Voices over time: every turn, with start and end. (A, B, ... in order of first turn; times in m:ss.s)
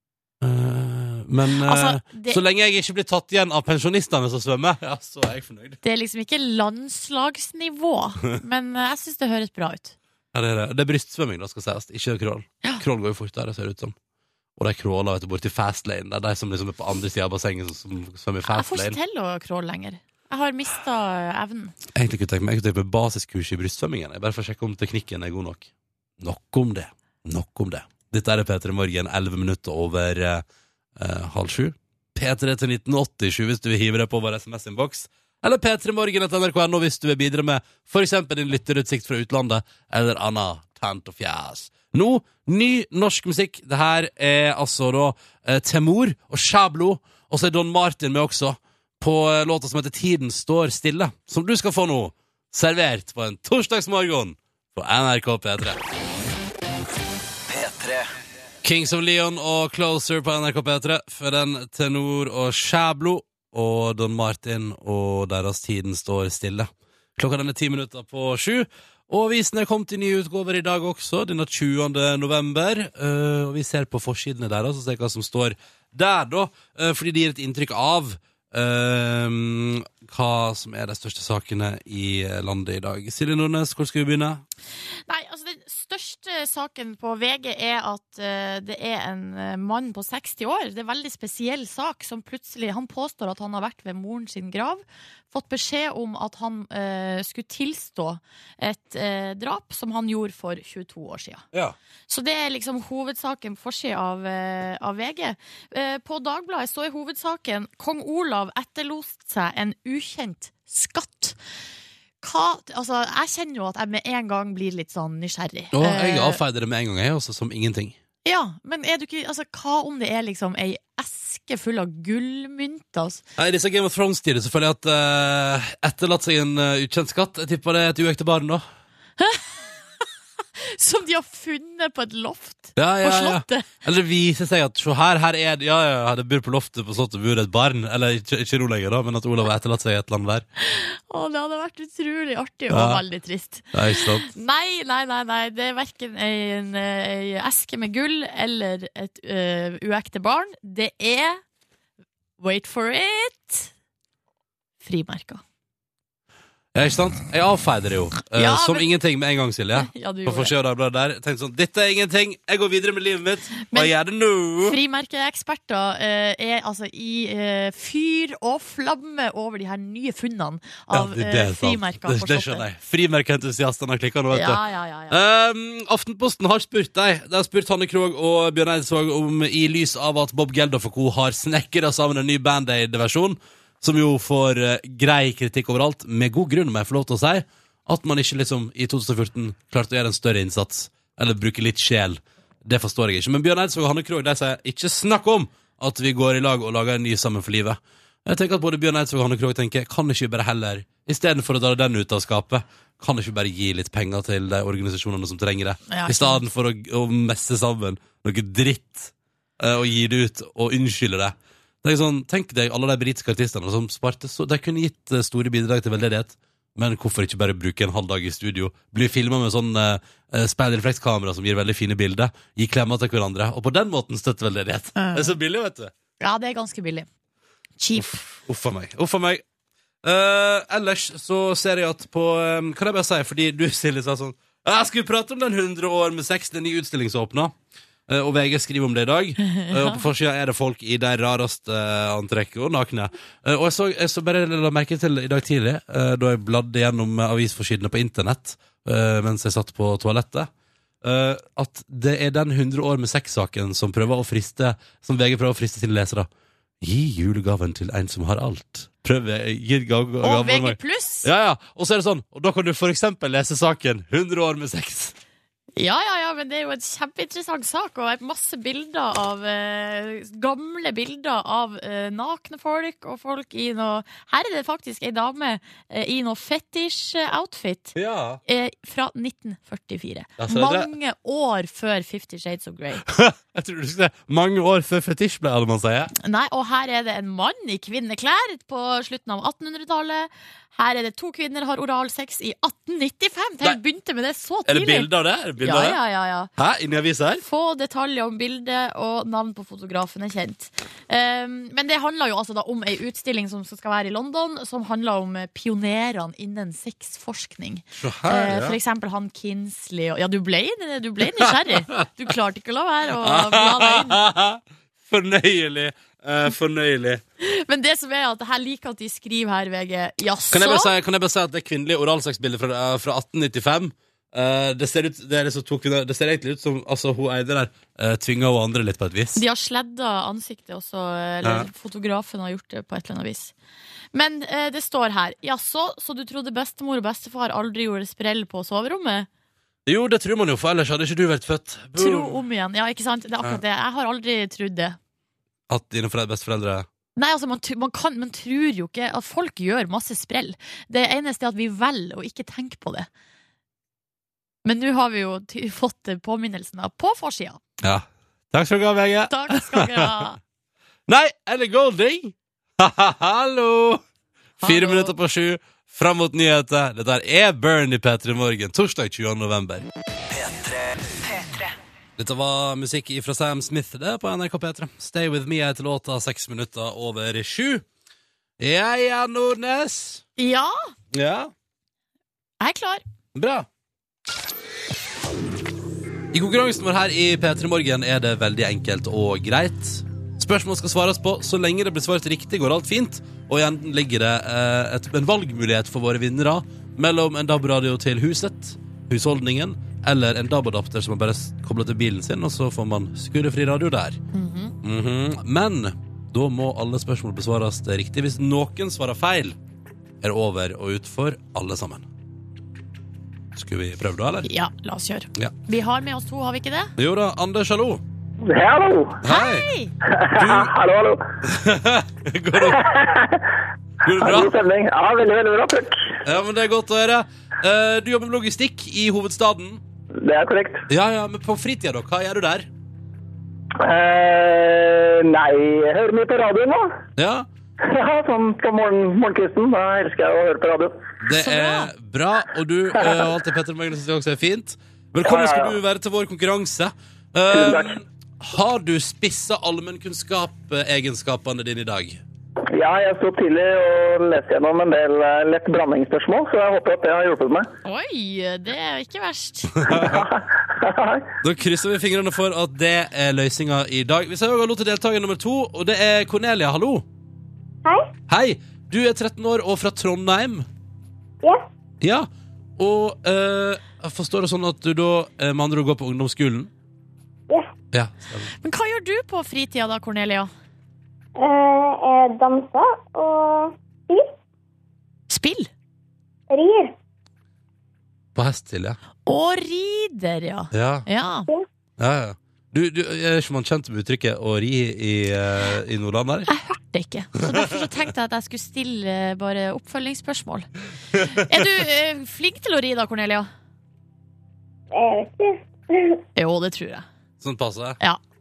0:00.4-0:05.8 A
0:01.4-0:02.4 B
0:05.8-0:10.0 B
0:10.3-0:14.0 A
0:14.6-0:19.0 A
0:18.4-0:21.8 B
0:21.9-0:25.7 A
0:26.2-0:30.4 A
0:31.0-0:55.8 A
0:57.5-0:58.1 C
0:58.6-1:24.4 A
1:25.1-1:41.4 B
1:42.1-1:51.4 B
1:52.2-1:56.4 B
1:55.7-1:58.0 A
1:58.2-2:03.2 B
2:03.4-2:08.6 A
2:09.2-2:09.6 B
2:10.6-2:13.7 B
2:12.8-2:20.4 A
2:20.6-2:31.4 B
2:22.7-2:23.0 A
2:23.7-2:24.3 A
2:32.4-2:33.7 B
2:34.8-2:35.4 B
2:36.7-2:44.8 A
2:38.3-2:38.9 B
2:39.8-2:40.5 B
2:43.6-2:43.9 B
2:44.6-2:52.6 B
2:50.9-3:45.9 A
2:54.3-2:55.2 B
3:25.9-3:26.4 B
3:45.0-3:45.4 B
3:46.2-3:47.1 B
3:47.8-3:48.3 B
3:48.0-3:49.4 A
3:50.0-3:57.6 A
3:58.1-4:10.5 A
3:59.4-4:00.0 B
4:11.0-4:16.3 A
4:16.8-4:25.2 A
4:20.2-4:21.3 B
4:25.8-4:43.0 B
4:38.0-4:38.4 A
4:40.4-4:40.9 A
4:43.1-4:46.1 A
4:46.2-4:56.5 B
4:54.7-4:56.0 A
4:56.6-4:57.4 A
4:57.4-5:14.2 B
5:08.0-5:08.8 A
5:11.4-5:11.8 A
5:13.2-5:17.2 A
5:17.4-5:20.9 B
5:20.5-5:29.4 A
5:29.4-5:33.5 B
5:31.4-5:31.7 A
5:34.1-5:39.3 B
5:39.9-5:42.4 A
5:42.0-5:45.0 B
5:45.7-5:46.9 A
5:47.2-5:53.1 B
5:54.6-5:57.6 B
5:57.8-6:00.3 A
5:59.3-6:00.4 B
6:01.1-6:04.0 A
6:04.6-6:05.1 B
6:04.6-6:09.9 A
6:10.3-6:11.7 C
6:12.2-6:17.8 A
6:18.6-6:20.2 A
6:20.4-6:20.7 B
6:21.1-6:21.5 A
6:22.6-6:23.0 B
6:23.4-6:23.7 A
6:26.3-6:44.2 A
6:44.3-6:44.8 B
6:44.8-6:49.6 A
6:50.2-6:52.1 A
6:53.6-6:54.5 A
6:54.5-6:56.9 B
6:57.0-6:58.0 A
6:58.4-6:59.2 D
6:59.2-6:59.7 A
6:59.3-6:59.9 B
7:00.1-7:01.2 D
7:00.4-7:00.7 A
7:01.4-7:02.8 A
7:02.6-7:03.5 D
7:04.0-7:04.6 A
7:04.2-7:06.2 D
7:06.2-7:09.8 A
7:10.2-7:10.9 D
7:10.9-7:12.7 A
7:13.8-7:16.9 D
7:17.2-7:17.5 A
7:17.8-7:20.9 D
7:21.2-7:32.2 A
7:21.3-7:21.9 B
7:25.2-7:25.7 D
7:27.5-7:28.0 D
7:32.7-7:37.7 D
7:37.8-7:39.9 B
7:39.8-7:40.3 A
7:39.9-7:41.3 D
7:41.4-7:47.0 A
7:48.3-7:50.7 A
7:52.0-7:56.7 A
7:57.9-7:58.5 A
7:58.6-8:00.5 B
8:01.4-8:04.3 E
8:05.3-8:05.7 B
8:06.5-8:06.9 E
8:08.4-8:09.0 A
8:09.3-8:11.5 B
8:10.7-8:11.1 A
8:12.0-8:16.5 A
8:16.5-8:20.7 B
8:17.5-8:17.8 A
8:21.2-8:23.5 B
8:24.9-8:26.2 E
8:26.4-8:27.0 B
8:27.4-8:28.0 A